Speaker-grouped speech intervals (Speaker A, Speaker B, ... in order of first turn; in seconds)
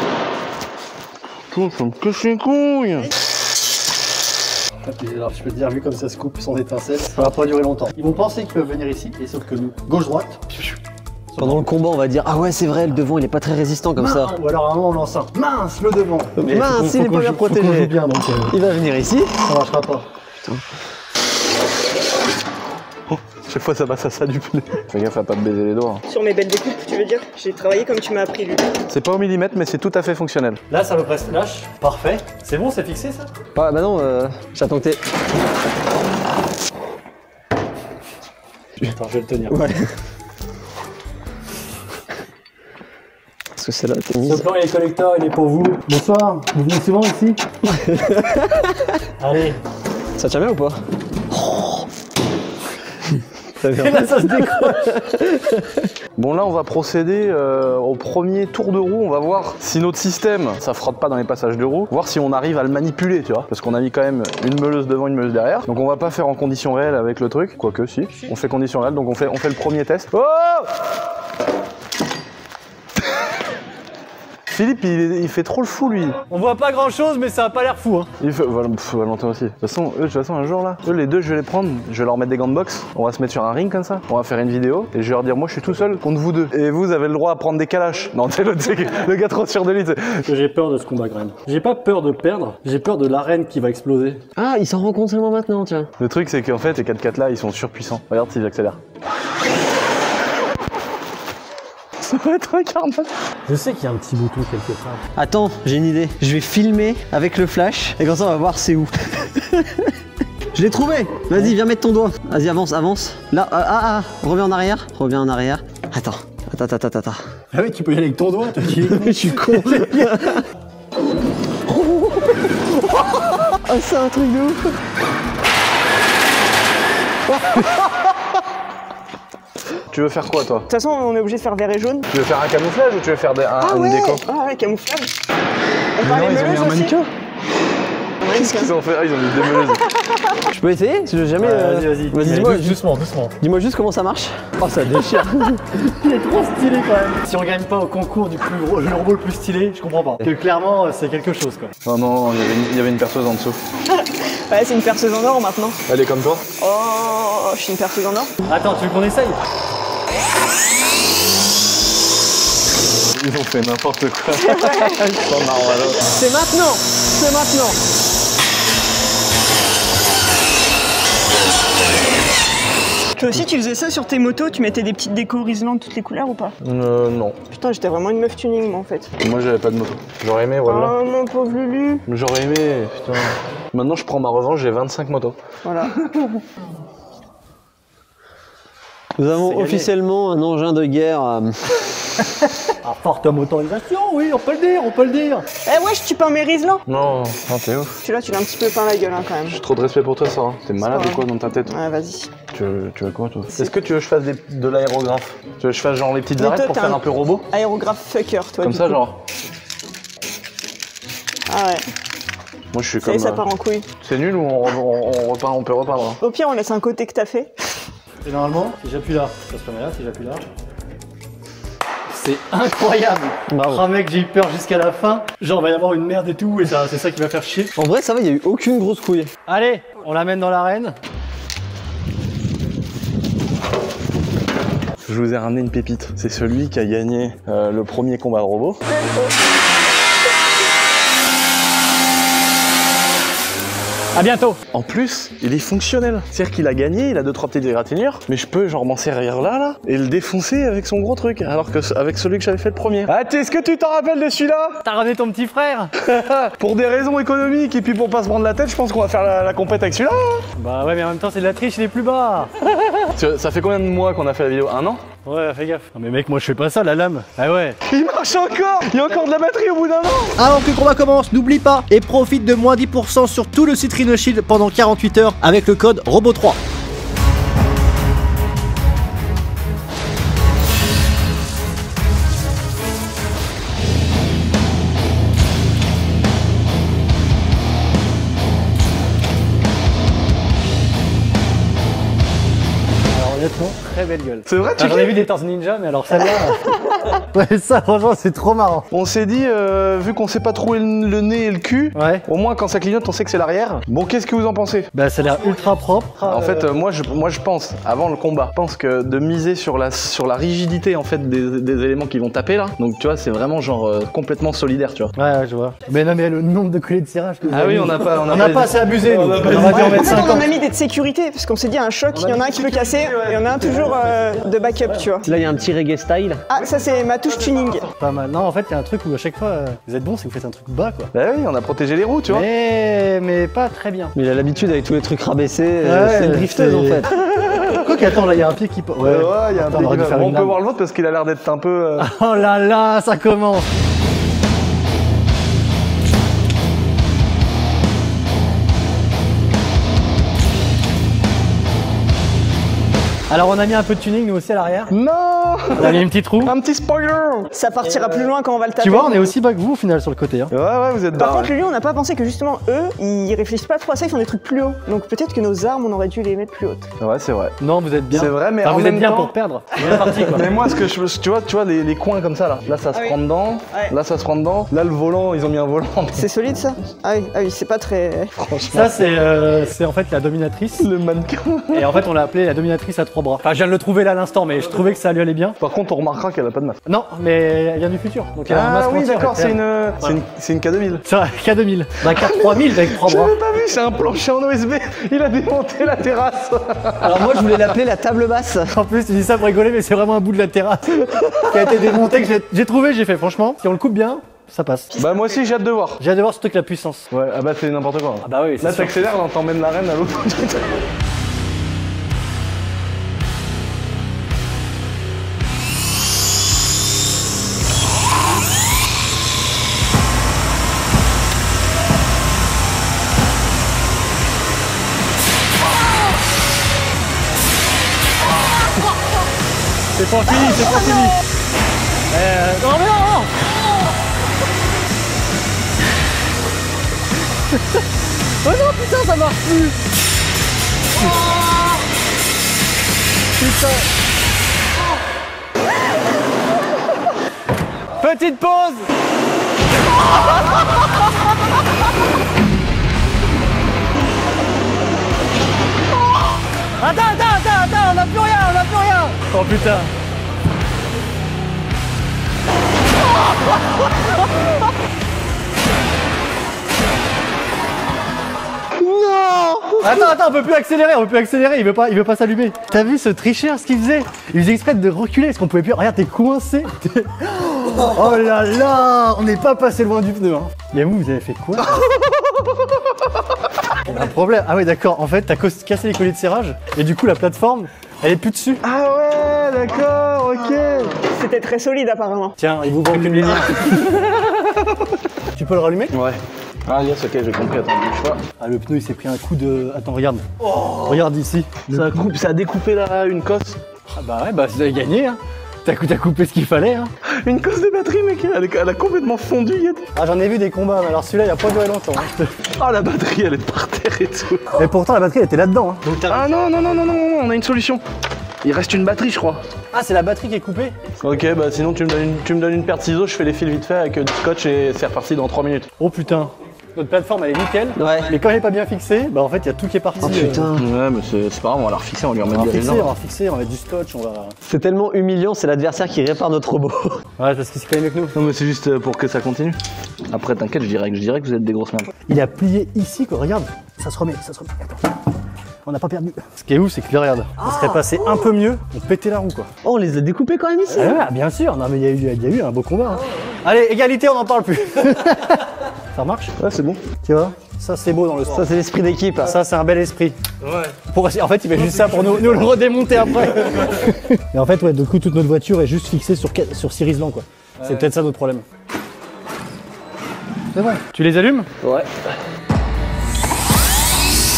Speaker A: 1.5-3.1, 23.1-26.0, 28.9-30.6, 56.2-70.7, 74.5-76.2, 78.2-90.3, 96.0-98.8, 102.0-103.1, 129.9-130.7, 132.1-134.2, 136.0-137.1, 138.3-139.9, 151.8-153.6, 155.9-156.5, 163.1-166.1, 176.6-177.4, 179.2-181.0, 182.1-185.4, 196.9-198.0, 199.5-201.7, 202.5-207.5, 208.6-209.2, 212.7-213.4, 214.0-216.2, 235.1-238.8, 244.7-254.8, 256.0-260.5, 263.1-265.0, 267.9-270.4, 294.5-295.2, 298.9-304.9, 306.3-315.1, 317.5-320.5, 331.1-332.5, 337.3-337.8, 339.0-342.1, 354.9-357.5, 360.5-361.5, 367.0-367.6, 368.1-376.3, 378.4-379.1, 380.8-382.0, 385.6-386.8, 388.5-391.1, 392.1-397.7, 405.0-406.0, 407.1-410.8, 488.6-491.0, 493.6-494.7, 495.9-498.2, 500.4-501.0, 501.7-503.6, 507.1-509.9, 512.6-514.5, 516.1-517.8, 518.4-519.4, 521.0-525.7, 530.5-532.9, 538.1-541.9, 556.4-556.8, 560.4-560.8, 561.6-562.8, 563.4-563.7, 567.6-567.9
Speaker B: 4.8-10.7, 14.0-18.6, 19.4-20.1, 30.7-33.3, 38.8-39.6, 44.2-47.5, 49.2-49.6, 53.6-55.1, 76.3-78.1, 90.3-94.2, 103.5-105.0, 117.5-120.4, 141.4-143.4, 146.0-151.7, 158.5-159.4, 189.4-189.9, 192.8-195.5, 218.2-220.5, 222.1-227.7, 229.5-230.9, 244.2-244.6, 254.8-255.9, 260.6-262.5, 265.2-267.8, 293.1-298.9, 301.9-302.3, 304.9-306.7, 315.1-320.5, 322.3-322.7, 328.0-331.1, 332.3-334.1, 335.8-337.1, 337.8-340.6, 342.0-343.7, 353.3-354.9, 355.7-356.5, 358.8-360.5, 367.6-370.5, 378.7-380.9, 381.7-385.6, 386.9-390.2, 391.1-393.4, 398.7-405.0, 406.0-407.1, 408.2-409.1, 429.9-431.2, 432.1-433.3, 438.4-439.8, 443.4-443.9, 448.0-448.9, 456.8-459.9, 469.8-481.9, 483.8-488.6, 492.4-493.9, 495.3-495.9, 498.4-501.8, 503.9-506.9, 509.9-512.3, 514.6-516.4, 519.7-520.8, 525.8-530.5, 532.2-534.4, 537.2-538.1, 542.1-545.0, 545.6-549.5, 550.7-556.3, 557.0-558.5, 559.2-560.2, 560.9-568.5, 570.5-571.5
Speaker C: 11.4-14.3, 16.4-17.9, 18.5-19.4, 33.5-35.0, 39.5-39.9, 43.6-44.5, 47.7-49.0, 50.2-51.9, 53.6-55.9, 94.4-95.9, 105.2-109.9, 110.5-117.2, 118.9-120.4, 121.7-124.8, 127.3-127.7, 140.5-142.8, 143.4-145.8, 166.1-167.8, 189.2-191.7, 223.5-223.8, 227.8-229.3, 325.2-326.4, 334.1-337.1, 397.0-398.7, 468.8-469.6, 527.8-528.1, 530.0-530.6, 534.4-537.0, 547.5-547.8, 549.6-551.0, 558.3-559.4, 571.6-571.9
Speaker D: 26.1-28.7, 130.7-132.1, 133.6-135.1, 136.0-136.9, 138.2-138.7, 153.9-155.8, 156.6-158.3, 164.4-165.4, 173.2-176.6, 177.5-179.1, 180.6-182.1, 185.6-186.0, 195.7-196.8, 198.0-199.6, 200.8-202.3, 206.4-209.0, 211.5-211.8, 213.0-213.9, 216.2-217.5, 238.9-239.3, 319.8-325.3, 326.5-327.9, 357.5-359.3, 361.1-366.9, 372.9-373.2, 373.7-373.9, 376.2-378.4, 491.0-492.4
Speaker E: 270.4-276.6